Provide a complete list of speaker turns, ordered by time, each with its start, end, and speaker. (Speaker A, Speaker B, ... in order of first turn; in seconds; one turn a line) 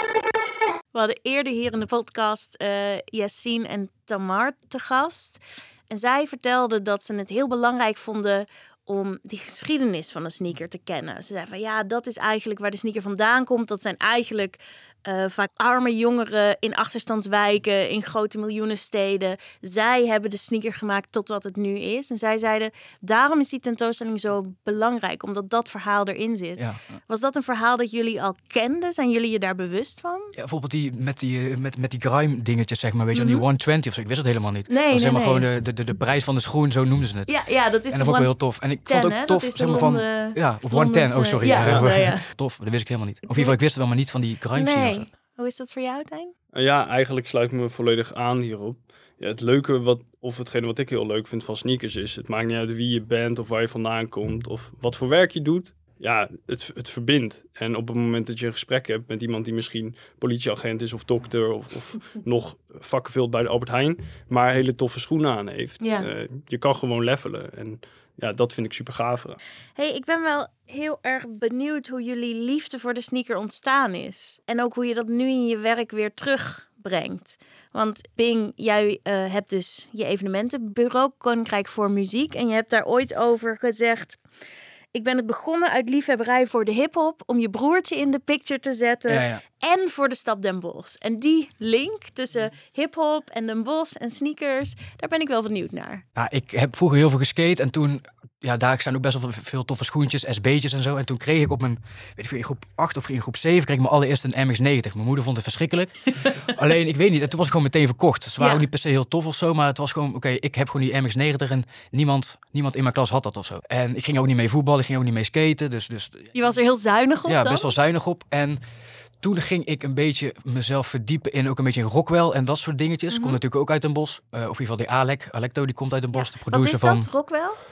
Speaker A: 0.9-30.3
Speaker B: 30.3-37.3
Speaker A: 33.1-33.4
Speaker A: 34.7-35.5
Speaker A: 37.3-42.2
Speaker B: 37.9-45.1
Speaker C: 41.4-41.9
Speaker A: 43.3-43.5
Speaker A: 44.5-46.3
Speaker C: 46.5-69.4
Speaker A: 65.8-66.1
Speaker A: 69.8-84.2
Speaker A: 84.9-96.0
Speaker B: 89.1-89.4
Speaker B: 96.1-116.3
Speaker A: 108.4-108.6
Speaker A: 116.3-117.7
Speaker B: 117.2-118.6
Speaker B: 119.2-127.1
Speaker A: 123.1-123.4
Speaker A: 126.1-127.6